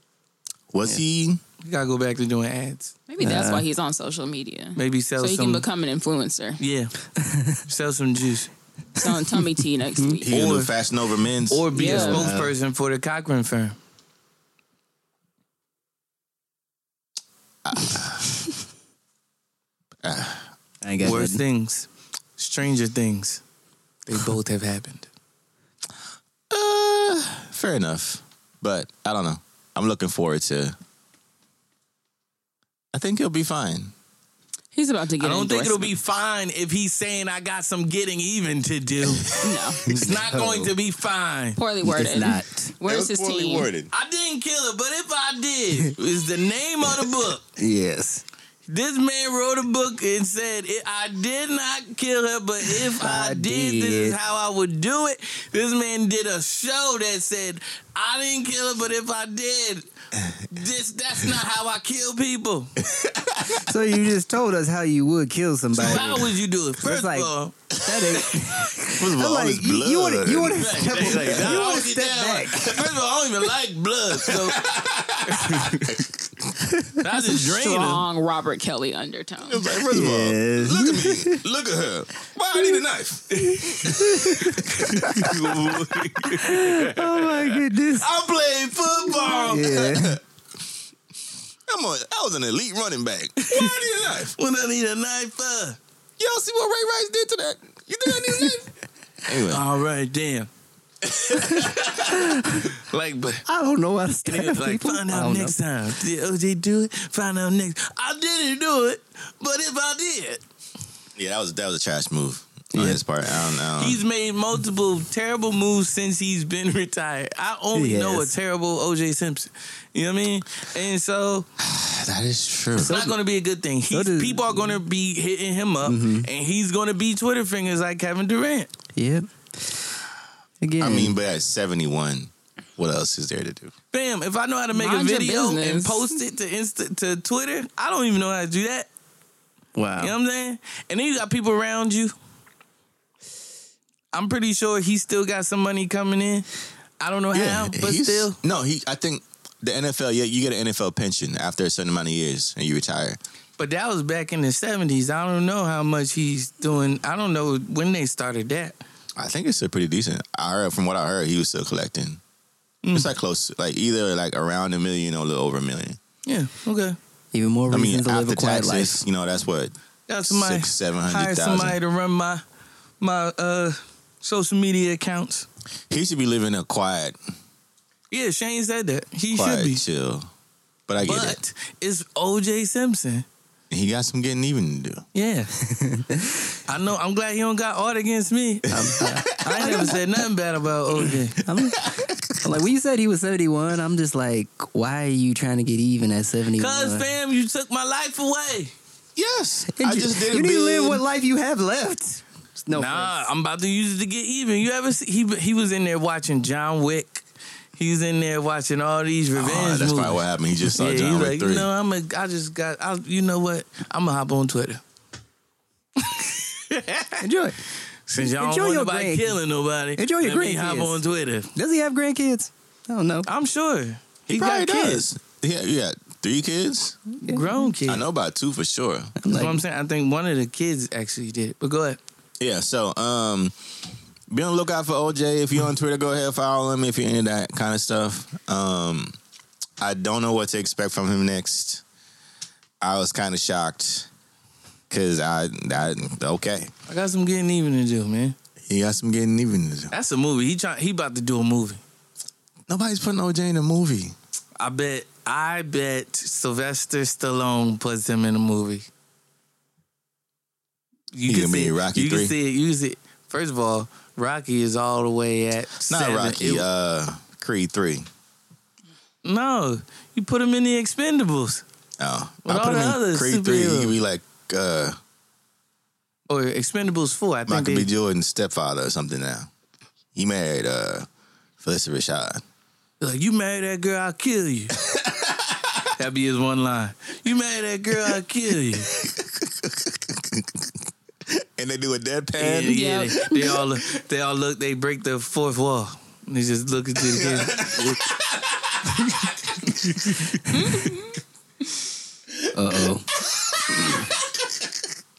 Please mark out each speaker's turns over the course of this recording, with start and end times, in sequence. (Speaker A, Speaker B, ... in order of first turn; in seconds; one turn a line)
Speaker A: 0.7-1.4
Speaker B: 1.6-2.9
Speaker C: 3.1-6.6
Speaker D: 3.2-3.6
Speaker B: 4.8-5.6
Speaker B: 6.6-6.9
Speaker D: 7.2-7.6
Speaker B: 7.6-8.5
Speaker D: 9.0-9.4
Speaker C: 9.0-10.3
Speaker D: 9.9-10.2
Speaker A: 10.2-11.7
Speaker B: 10.3-10.7
Speaker B: 11.5-13.8
Speaker C: 11.7-12.3
Speaker D: 11.8-12.5
Speaker A: 17.6-18.3
Speaker A: 20.0-20.5
Speaker D: 20.8-21.4
Speaker B: 21.0-23.4
Speaker B: 24.1-25.1
Speaker A: 26.5-30.8
Speaker A: 32.9-33.9
Speaker C: 34.7-35.9
Speaker B: 35.2-41.6
Speaker C: 39.4-39.9
Speaker D: 39.8-40.7
Speaker C: 41.6-43.7
Speaker D: 41.8-42.7
Speaker A: 42.8-43.9
Speaker B: 43.9-47.4
Speaker D: 47.5-48.2
Speaker B: 48.7-59.9
Speaker D: 52.7-54.2
Speaker B: 60.5-62.7
Speaker A: 62.9-63.6
Speaker D: 63.6-72.8
Speaker B: 65.8-67.5
Speaker A: 68.8-71.7
Speaker B: 70.5-74.6
Speaker A: 74.2-76.5
Speaker B: 75.3-75.8
Speaker D: 76.6-77.3
Speaker B: 77.0-78.0
Speaker C: 77.6-79.7
Speaker A: 79.4-85.9
Speaker D: 79.8-81.4
Speaker B: 83.4-87.6
Speaker D: 83.5-85.3
Speaker D: 86.4-88.1
Speaker A: 88.0-90.2
Speaker D: 89.2-90.2
Speaker A: 91.7-94.3
Speaker B: 94.3-95.8
Speaker A: 96.2-99.6
Speaker D: 98.1-98.6
Speaker B: 99.5-100.5
Speaker B: 101.3-102.2
Speaker A: 101.3-101.7
Speaker D: 101.6-102.7
Speaker B: 102.7-103.4
Speaker D: 103.5-105.5
Speaker B: 104.2-110.4
Speaker A: 111.2-114.0
Speaker D: 112.7-113.0
Speaker B: 113.8-121.5
Speaker D: 117.7-118.3
Speaker A: 121.6-122.9
Speaker B: 122.8-128.7
Speaker D: 123.9-124.8
Speaker D: 125.8-126.3
Speaker D: 128.9-130.0
Speaker D: 130.6-131.1
Speaker A: 130.8-133.7
Speaker B: 133.9-138.9
Speaker C: 134.7-136.2
Speaker D: 139.8-140.1
Speaker B: 140.0-142.1
Speaker B: 144.1-146.5
Speaker B: 147.0-148.4
Speaker A: 147.3-153.2
Speaker B: 153.6-158.8
Speaker A: 159.2-162.2
Speaker B: 162.8-163.1
Speaker A: 162.9-166.0
Speaker B: 166.2-167.0
Speaker D: 167.3-169.0
Speaker A: 167.7-169.7
Speaker B: 170.1-172.4
Speaker A: 170.2-171.8
Speaker B: 173.0-175.5
Speaker A: 175.9-177.2
Speaker B: 178.1-179.8
Speaker A: 179.3-180.3
Speaker A: 180.9-181.4
Speaker B: 181.0-183.2
Speaker A: 183.7-185.0
Speaker B: 185.1-185.5
Speaker D: 185.6-186.5
Speaker B: 186.7-191.4
Speaker D: 188.7-190.0
Speaker A: 188.7-189.7
Speaker D: 191.4-197.1
Speaker A: 191.8-192.1
Speaker B: 196.6-198.7
Speaker A: 199.2-201.0
Speaker D: 199.7-203.1
Speaker B: 202.7-207.2
Speaker B: 207.8-214.8
Speaker A: 209.3-211.7
Speaker B: 216.0-217.2
Speaker D: 217.2-217.6
Speaker B: 218.1-221.5
Speaker D: 218.2-219.4
Speaker D: 219.9-221.0
Speaker D: 221.5-223.3
Speaker B: 223.2-225.1
Speaker A: 224.3-227.1
Speaker D: 227.2-227.7
Speaker B: 227.3-228.0
Speaker A: 227.9-229.2
Speaker D: 229.2-229.6
Speaker B: 229.3-232.0
Speaker A: 232.4-233.5
Speaker A: 234.3-239.2
Speaker A: 239.8-241.8
Speaker A: 242.8-244.1
Speaker A: 244.9-246.7
Speaker B: 246.9-248.3
Speaker A: 248.7-249.9
Speaker B: 249.9-251.8
Speaker A: 252.7-254.1
Speaker B: 254.6-258.9
Speaker B: 261.1-266.6
Speaker A: 261.3-262.3
Speaker A: 265.9-268.1
Speaker B: 269.2-271.6
Speaker A: 272.0-275.0
Speaker B: 272.4-274.0
Speaker B: 276.3-277.9
Speaker A: 277.5-279.5
Speaker A: 280.1-281.1
Speaker A: 281.6-282.4
Speaker B: 283.0-284.7
Speaker A: 284.9-285.5
Speaker B: 286.0-288.9
Speaker A: 288.7-290.7
Speaker A: 291.3-293.5
Speaker B: 292.4-297.8
Speaker C: 292.7-293.6
Speaker A: 297.0-300.8
Speaker C: 300.5-301.2
Speaker D: 302.5-303.1
Speaker A: 302.8-304.6
Speaker D: 303.7-304.1